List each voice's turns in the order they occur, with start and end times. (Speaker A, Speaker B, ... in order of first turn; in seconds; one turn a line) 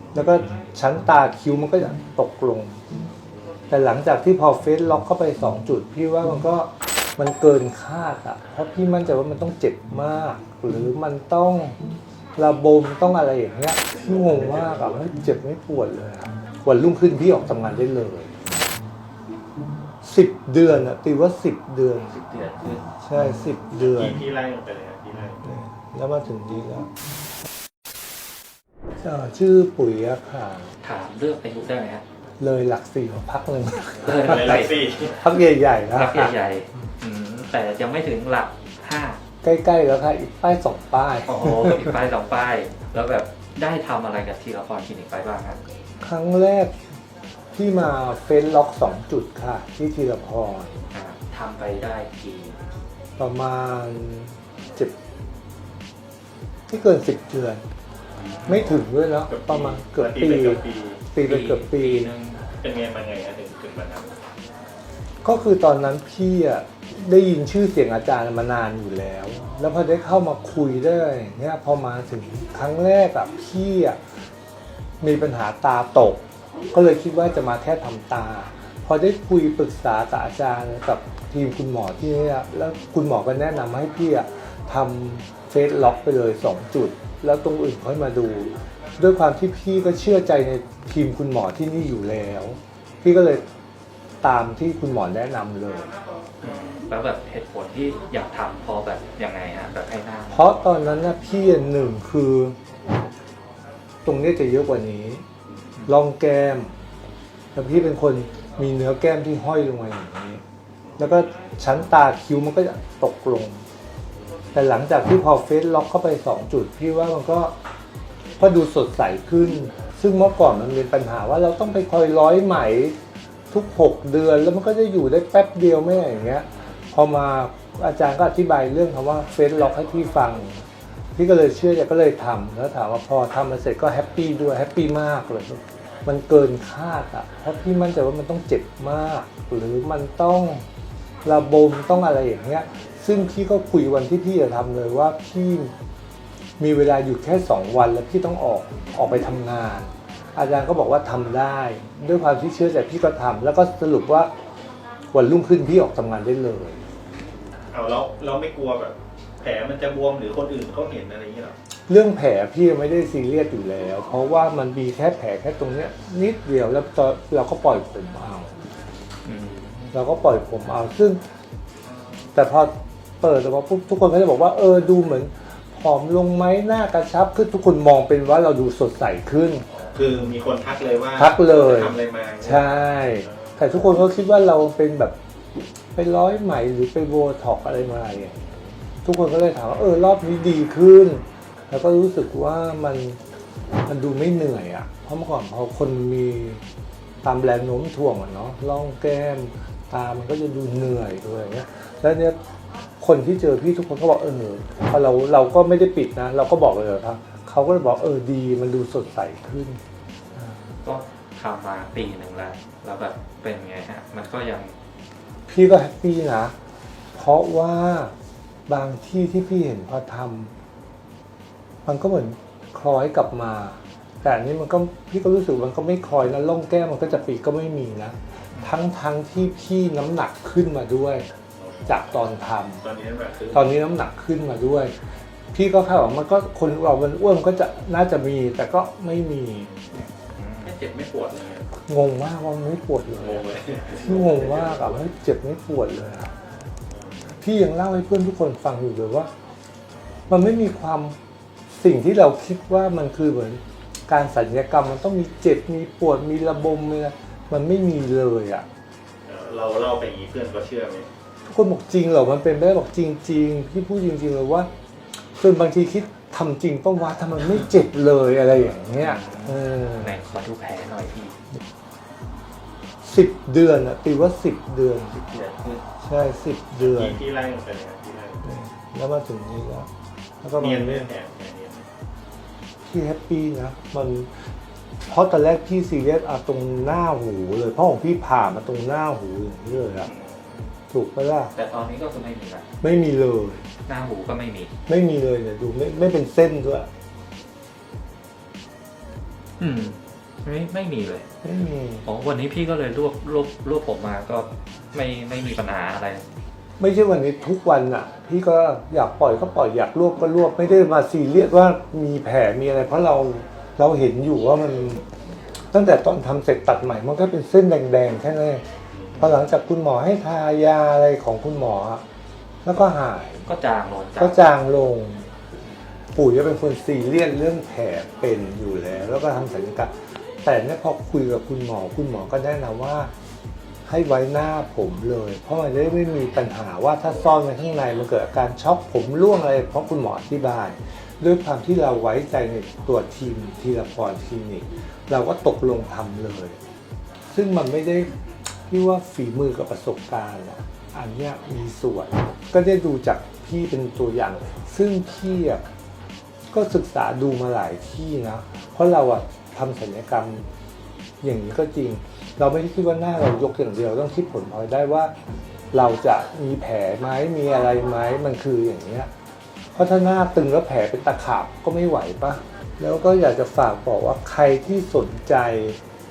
Speaker A: 0.1-2.8
Speaker A: 3.7-11.8
Speaker A: 12.4-18.4
Speaker B: 13.9-15.1
Speaker A: 20.0-22.2
Speaker C: 22.0-22.9
Speaker A: 23.0-24.2
Speaker B: 23.8-25.5
Speaker A: 25.4-26.9
Speaker A: 29.0-30.7
Speaker C: 30.8-32.0
Speaker A: 32.4-36.4
Speaker C: 34.0-34.7
Speaker B: 34.1-35.3
Speaker C: 35.9-39.2
Speaker A: 39.4-42.0
Speaker C: 41.3-45.6
Speaker A: 46.0-46.7
Speaker A: 47.5-50.7
Speaker C: 50.9-52.6
Speaker A: 53.2-54.9
Speaker A: 56.7-57.6
Speaker C: 58.2-58.6
Speaker A: 58.5-62.1
Speaker B: 59.3-61.0
Speaker C: 61.2-62.5
Speaker B: 62.6-64.2
Speaker A: 65.2-74.0
Speaker A: 75.0-93.5
Speaker A: 94.2-95.9
Speaker C: 96.4-100.5
Speaker A: 100.3-102.6
Speaker A: 104.0-105.2
Speaker A: 105.8-106.8
Speaker A: 107.5-110.4
Speaker A: 111.0-113.6
Speaker A: 114.5-117.5
Speaker A: 118.4-123.0
Speaker A: 123.5-140.7
Speaker A: 141.2-145.7
Speaker A: 146.6-154.3
Speaker A: 155.1-156.8
Speaker B: 157.7-161.6
Speaker A: 161.9-168.5
Speaker C: 169.2-169.9
Speaker A: 169.9-171.2
Speaker A: 172.3-179.7
Speaker B: 179.8-182.8
Speaker A: 181.2-185.2
Speaker A: 185.9-188.5
Speaker A: 189.0-193.2
Speaker A: 193.9-196.6
Speaker A: 197.2-202.4
Speaker A: 203.0-209.8
Speaker C: 210.8-214.8
Speaker A: 215.5-216.5
Speaker A: 217.2-218.1
Speaker A: 218.7-220.5
Speaker A: 221.8-231.3
Speaker B: 231.6-231.9
Speaker A: 231.9-232.8
Speaker B: 232.8-233.7
Speaker A: 233.5-239.7
Speaker C: 240.3-240.7
Speaker B: 240.6-241.7
Speaker A: 241.8-246.3
Speaker B: 243.2-245.0
Speaker B: 246.9-247.3
Speaker A: 247.3-249.3
Speaker A: 250.3-251.2
Speaker A: 251.7-258.7
Speaker B: 259.3-261.1
Speaker A: 261.4-264.7
Speaker A: 265.4-270.1
Speaker C: 268.9-271.4
Speaker A: 273.0-275.1
Speaker C: 275.1-275.9
Speaker A: 276.0-277.2
Speaker B: 276.8-278.5
Speaker A: 278.4-279.9
Speaker A: 280.4-281.1
Speaker B: 280.6-281.9
Speaker A: 282.9-284.4
Speaker A: 285.0-290.1
Speaker C: 290.0-290.7
Speaker A: 290.9-291.5
Speaker C: 291.5-292.7
Speaker A: 292.8-293.6
Speaker C: 293.8-294.7
Speaker A: 294.9-296.9
Speaker C: 299.6-301.3
Speaker A: 301.4-302.1
Speaker C: 302.0-306.3
Speaker A: 306.8-318.6
Speaker A: 319.2-322.0
Speaker A: 322.6-323.5
Speaker C: 323.5-324.5
Speaker A: 324.2-325.3
Speaker A: 326.1-333.1
Speaker A: 333.9-346.6
Speaker A: 347.3-355.6
Speaker A: 356.5-360.5
Speaker A: 361.2-365.1
Speaker A: 365.7-369.1
Speaker A: 369.7-375.8